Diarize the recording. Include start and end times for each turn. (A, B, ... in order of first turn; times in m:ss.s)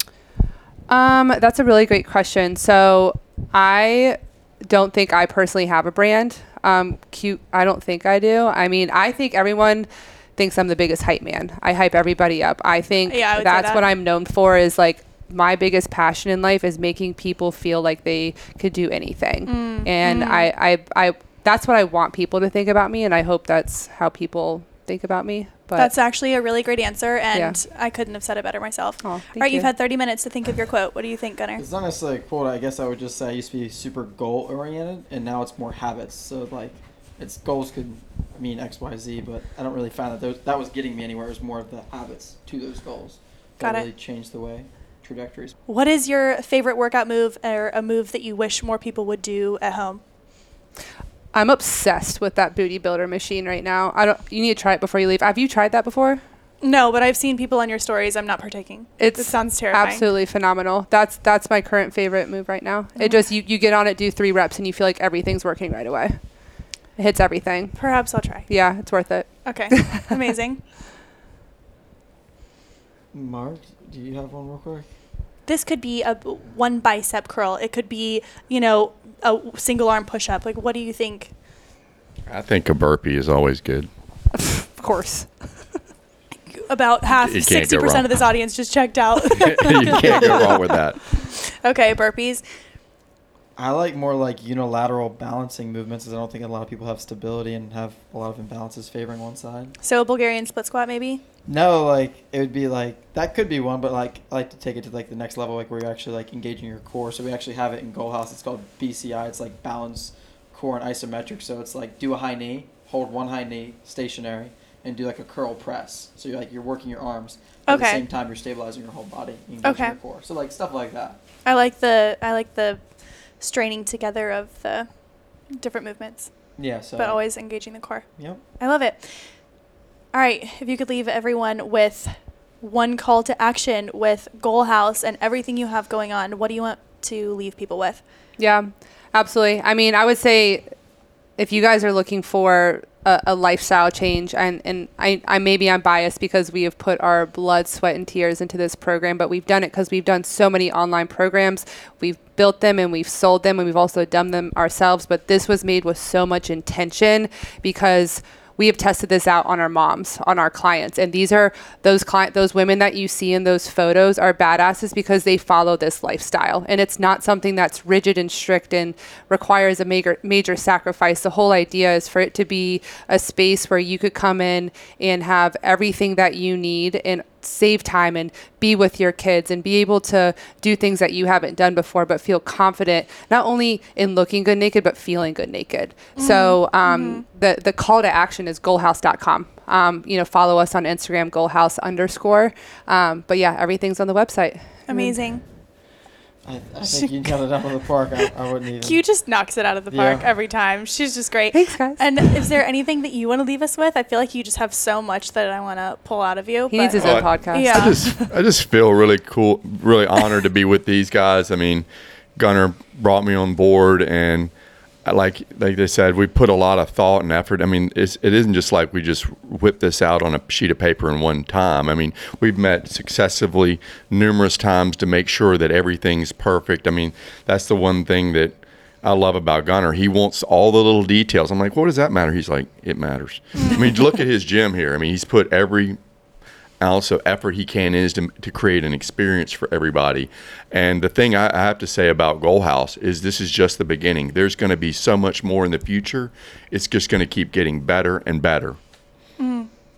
0:00.9-0:25.9 A
0:13.1-0:13.8 B
0:19.5-0:20.5 B
0:25.8-0:31.6 B
0:27.3-0:27.6 A
0:29.0-0:29.7 A
0:31.6-0:45.6 C
0:43.6-0:43.9 B
0:45.7-0:50.0 B
0:51.3-0:56.2 A
0:56.6-1:00.0 B
0:59.0-1:10.1 A
1:03.0-1:03.2 B
1:07.8-1:08.5 B
1:09.4-1:10.6 B
1:13.1-1:14.9 C
1:15.5-1:21.3 B
1:22.3-1:23.9 D
1:24.5-1:25.4 A
1:26.5-1:32.4 B
1:27.2-1:28.1 D
1:29.3-1:31.0 D
1:33.6-1:39.8 C
1:39.8-1:41.2 B
1:41.5-2:01.2 C
1:57.7-1:58.0 B
1:59.6-2:00.0 B
2:01.4-2:06.4 B
2:06.6-2:07.2 C
2:07.0-2:09.4 B
2:10.1-2:18.0 B
2:18.4-2:20.7 A
2:21.4-3:15.2 A
3:06.2-3:07.2 B
3:14.9-3:15.4 B
3:16.4-3:19.0 C
3:18.8-3:28.0 B
3:19.9-3:20.3 C
3:21.5-3:22.3 A
3:26.7-3:28.3 A
3:27.0-3:34.5 D
3:35.0-3:56.0 D
3:56.8-4:08.8 D
4:09.4-4:09.7 B